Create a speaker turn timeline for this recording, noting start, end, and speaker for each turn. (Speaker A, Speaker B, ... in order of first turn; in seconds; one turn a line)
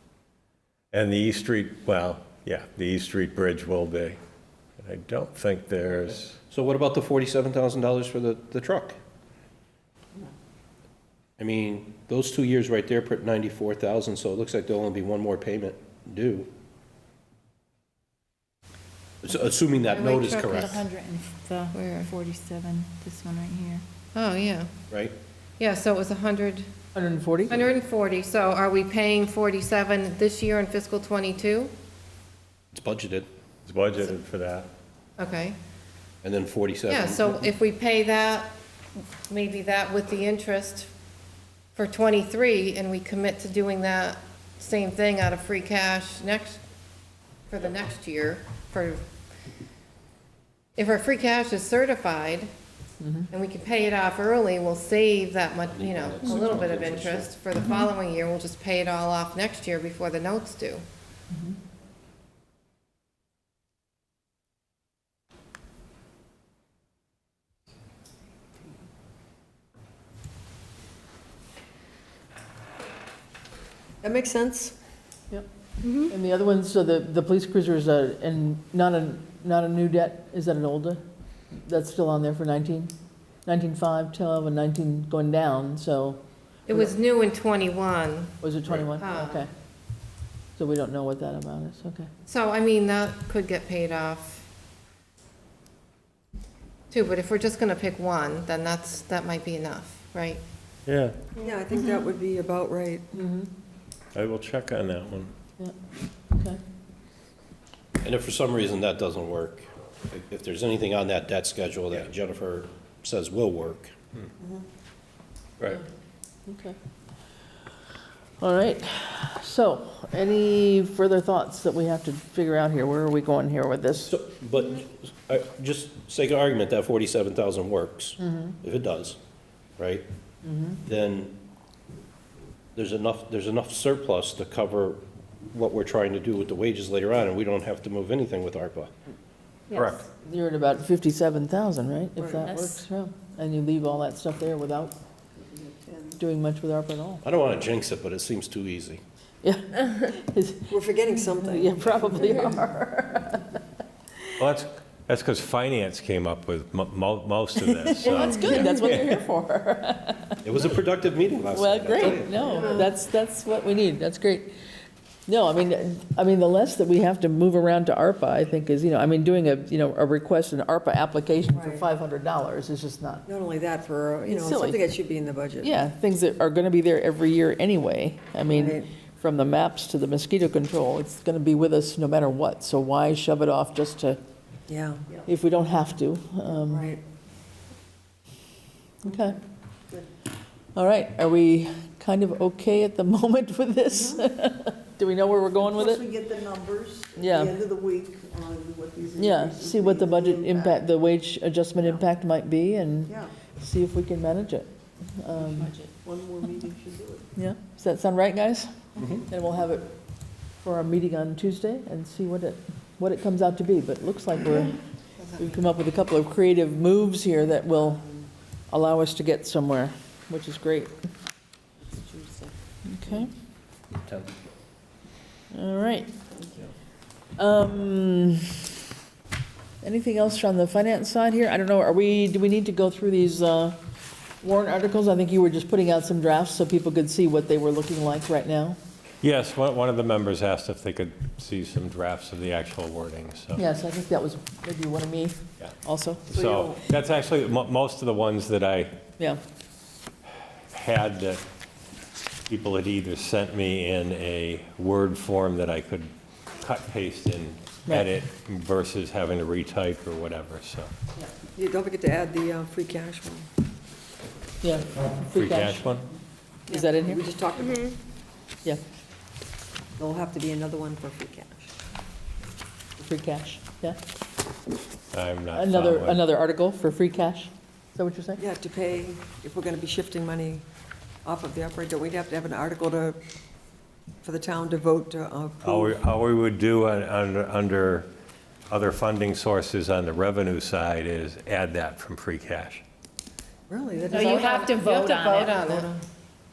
Speaker A: 0.9-4.2
Speaker A: 4.8-6.4
Speaker B: 6.5-9.0
Speaker B: 11.4-16.5
Speaker B: 19.2-20.9
Speaker C: 19.9-20.7
Speaker D: 20.4-23.8
Speaker C: 21.7-22.1
Speaker C: 24.1-24.7
Speaker C: 25.6-26.7
Speaker E: 26.9-27.6
Speaker C: 27.5-31.7
Speaker B: 32.7-33.3
Speaker A: 33.6-34.7
Speaker C: 35.2-35.6
Speaker B: 36.2-37.4
Speaker C: 36.9-38.5
Speaker C: 39.3-40.9
Speaker C: 41.8-46.6
Speaker C: 47.5-49.0
Speaker C: 50.8-52.5
Speaker E: 53.0-53.3
Speaker C: 53.3-60.8
Speaker B: 55.7-57.3
Speaker E: 61.3-61.5
Speaker F: 74.0-74.7
Speaker C: 75.8-76.1
Speaker E: 76.0-81.0
Speaker E: 81.6-82.9
Speaker E: 83.5-86.2
Speaker C: 86.7-88.3
Speaker E: 88.4-89.5
Speaker C: 89.0-89.4
Speaker E: 90.5-92.1
Speaker C: 92.2-94.4
Speaker C: 96.9-100.4
Speaker A: 100.8-101.2
Speaker F: 101.4-103.1
Speaker E: 103.1-103.5
Speaker A: 104.1-105.3
Speaker E: 106.3-106.6
Speaker B: 108.0-113.9
Speaker F: 114.4-114.7
Speaker E: 116.5-116.8
Speaker E: 118.4-124.1
Speaker B: 124.0-129.2
Speaker E: 128.2-128.5
Speaker B: 129.8-130.1
Speaker E: 130.4-130.8
Speaker B: 130.8-131.4
Speaker B: 132.7-138.9
Speaker D: 139.7-140.0
Speaker B: 139.7-140.0
Speaker E: 140.1-144.9
Speaker F: 142.2-142.5
Speaker D: 142.5-142.8
Speaker E: 146.2-147.2
Speaker B: 147.2-149.0
Speaker E: 149.4-150.7
Speaker F: 150.7-152.2
Speaker E: 151.4-153.6
Speaker A: 154.4-159.1
Speaker E: 157.9-160.4
Speaker B: 160.4-162.8
Speaker E: 161.5-164.5
Speaker F: 162.5-162.9
Speaker E: 165.3-173.2
Speaker F: 171.5-171.8
Speaker F: 173.2-175.7
Speaker E: 174.2-174.8
Speaker E: 175.6-184.2
Speaker F: 178.4-178.9
Speaker F: 184.7-185.0
Speaker E: 185.2-186.9
Speaker F: 186.6-187.0
Speaker E: 189.0-189.4
Speaker E: 190.7-196.1
Speaker F: 193.9-194.2
Speaker G: 195.6-200.8
Speaker E: 197.2-197.6
Speaker E: 199.2-205.7
Speaker D: 205.4-205.9
Speaker G: 206.0-207.2
Speaker E: 207.3-209.9
Speaker E: 210.6-214.8
Speaker E: 215.3-218.1
Speaker E: 218.7-221.1
Speaker F: 221.9-222.5
Speaker E: 222.8-223.3
Speaker B: 224.0-224.3
Speaker E: 225.5-226.1
Speaker F: 226.3-226.7
Speaker E: 227.4-228.7
Speaker E: 229.8-233.8
Speaker E: 234.4-238.8
Speaker A: 239.2-243.6
Speaker E: 243.5-246.3
Speaker A: 246.3-249.0
Speaker A: 250.7-251.4
Speaker A: 252.5-260.9
Speaker E: 257.9-258.2
Speaker F: 261.5-263.5
Speaker E: 264.6-265.9
Speaker A: 265.4-266.1
Speaker F: 266.7-268.0
Speaker E: 266.7-267.2
Speaker F: 270.0-271.7
Speaker E: 273.0-274.0
Speaker A: 275.1-276.2
Speaker E: 275.5-278.4
Speaker F: 278.4-280.6
Speaker F: 281.2-283.2
Speaker F: 284.2-285.9
Speaker A: 285.6-288.1
Speaker A: 288.7-292.8
Speaker F: 293.7-294.9
Speaker C: 294.1-295.9
Speaker D: 294.1-295.6
Speaker F: 295.6-295.9